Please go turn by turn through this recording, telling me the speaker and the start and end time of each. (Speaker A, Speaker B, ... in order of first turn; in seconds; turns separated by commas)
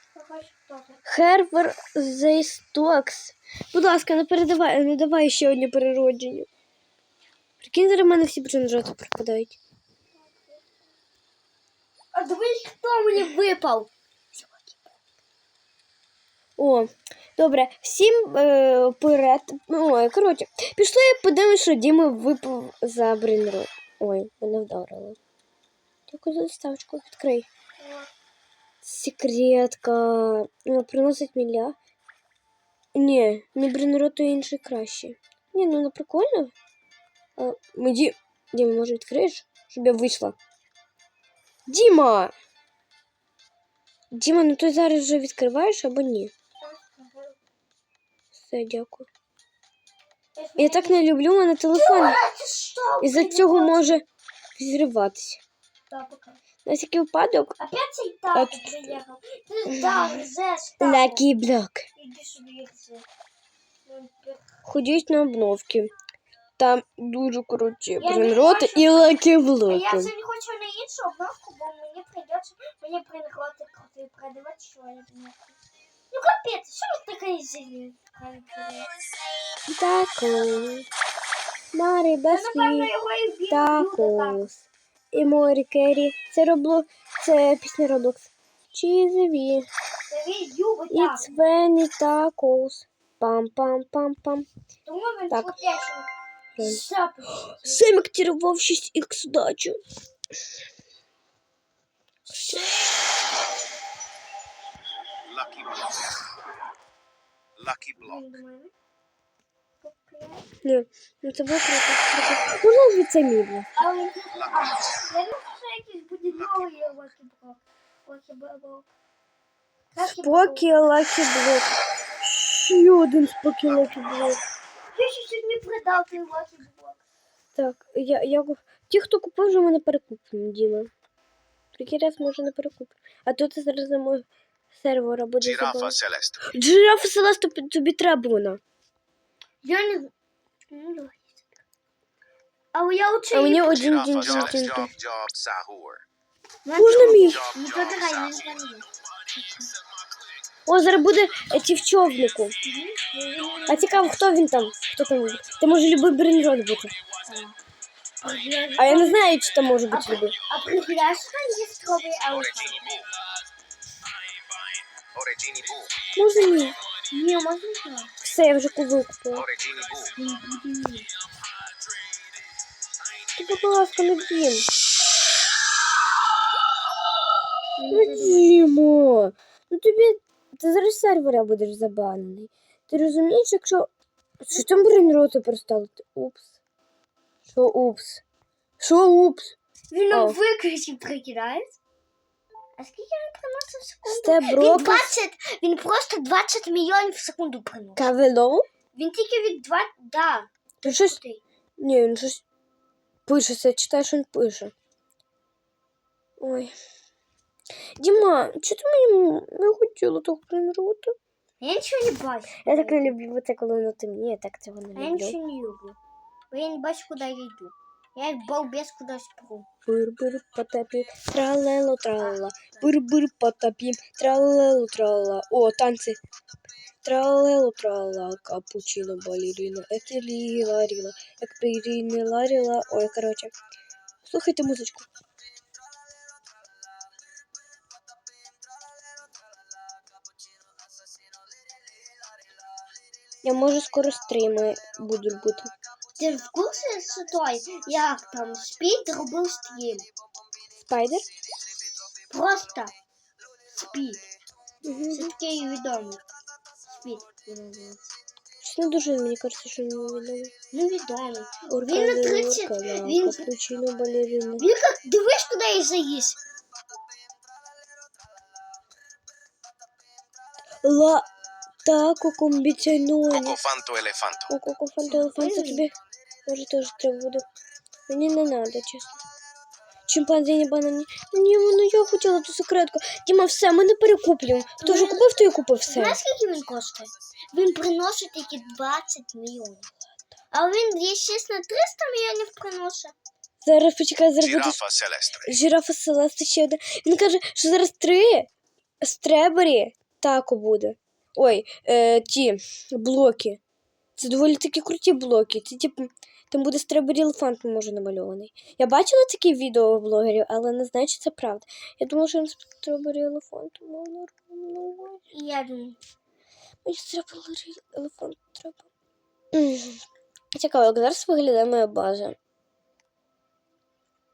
Speaker A: 0.1-1.0, Speaker B: 1.1-6.5, Speaker B: 7.6-9.6, Speaker A: 10.2-10.6, Speaker A: 12.1-14.9, Speaker B: 16.6-25.2, Speaker B: 26.1-27.5, Speaker A: 27.8-28.1, Speaker B: 28.8-31.7, Speaker B: 32.9-36.5, Speaker B: 37.4-40.4, Speaker B: 41.7-42.3, Speaker B: 44.1-46.3, Speaker A: 46.6-47.4, Speaker B: 48.3-49.1, Speaker A: 50.4-51.0, Speaker B: 50.6-52.2, Speaker A: 51.7-54.0, Speaker B: 53.0-54.0, Speaker B: 54.6-55.4, Speaker A: 55.9-56.4, Speaker B: 56.6-57.5, Speaker A: 57.6-61.2, Speaker B: 58.3-59.0, Speaker B: 60.8-61.9, Speaker A: 62.0-63.0, Speaker A: 63.9-64.5, Speaker B: 64.6-65.9, Speaker B: 66.6-70.1, Speaker A: 68.0-75.6, Speaker A: 76.1-78.9, Speaker B: 79.7-80.8, Speaker B: 81.7-82.9, Speaker A: 82.3-84.4, Speaker B: 83.5-89.7, Speaker A: 90.1-91.3, Speaker B: 90.9-94.5, Speaker A: 94.8-96.1, Speaker B: 96.5-99.8, Speaker A: 96.6-97.8, Speaker A: 102.3-102.9, Speaker B: 102.3-102.7, Speaker C: 105.3-105.9, Speaker C: 107.6-108.0, Speaker A: 108.0-108.7, Speaker A: 109.8-110.5, Speaker B: 110.6-113.8, Speaker A: 113.8-118.9, Speaker A: 119.9-120.7, Speaker B: 120.0-124.4, Speaker A: 124.9-127.0, Speaker B: 127.5-130.9, Speaker B: 131.7-138.6, Speaker C: 135.9-136.4, Speaker A: 139.6-140.1, Speaker A: 140.7-141.4, Speaker A: 142.7-143.8, Speaker B: 143.3-144.9, Speaker C: 144.1-146.0, Speaker A: 146.6-149.7, Speaker B: 146.8-147.4, Speaker C: 147.6-148.0, Speaker B: 150.7-152.5, Speaker A: 152.6-154.1, Speaker B: 153.7-156.9, Speaker A: 157.2-157.6, Speaker A: 158.2-159.2, Speaker B: 158.8-160.3, Speaker A: 159.9-162.9, Speaker C: 165.1-165.9, Speaker B: 166.1-166.8, Speaker A: 167.1-168.1, Speaker B: 168.2-169.5, Speaker C: 169.5-170.1, Speaker A: 170.2-171.1, Speaker B: 173.3-174.7, Speaker A: 177.8-178.5, Speaker B: 177.9-183.9, Speaker B: 184.4-186.5, Speaker B: 187.5-188.2, Speaker B: 188.8-189.5, Speaker A: 189.9-191.8, Speaker B: 190.1-190.4, Speaker A: 192.8-198.1, Speaker B: 194.0-195.1, Speaker B: 197.9-198.6, Speaker A: 198.9-201.4, Speaker B: 200.8-201.2, Speaker B: 201.8-202.4, Speaker B: 203.3-204.7, Speaker B: 206.4-206.7, Speaker B: 208.0-211.1, Speaker A: 211.6-213.1, Speaker B: 212.6-215.3, Speaker A: 214.9-216.0, Speaker A: 216.5-219.7, Speaker B: 219.9-226.2, Speaker A: 222.2-222.9, Speaker B: 227.0-233.5, Speaker B: 234.2-235.1, Speaker B: 243.4-245.7, Speaker A: 246.2-250.1, Speaker B: 250.8-251.2, Speaker A: 252.3-252.9, Speaker A: 253.7-254.3, Speaker B: 254.8-255.3, Speaker A: 255.1-256.2, Speaker A: 256.9-258.0, Speaker B: 258.6-260.5, Speaker A: 260.7-263.4, Speaker B: 261.7-264.6, Speaker A: 264.6-266.4, Speaker B: 270.8-271.3, Speaker B: 271.8-273.6, Speaker C: 273.5-274.5, Speaker B: 274.5-275.9, Speaker A: 275.1-275.9, Speaker B: 276.5-277.4, Speaker B: 278.1-279.2, Speaker B: 280.1-286.2, Speaker A: 284.8-289.9, Speaker A: 290.5-293.1, Speaker B: 293.6-294.8, Speaker C: 294.6-295.5, Speaker B: 295.4-298.5, Speaker B: 299.0-303.6, Speaker B: 304.2-315.2, Speaker A: 315.3-316.0, Speaker B: 316.8-318.9, Speaker B: 319.5-320.0, Speaker B: 320.5-322.4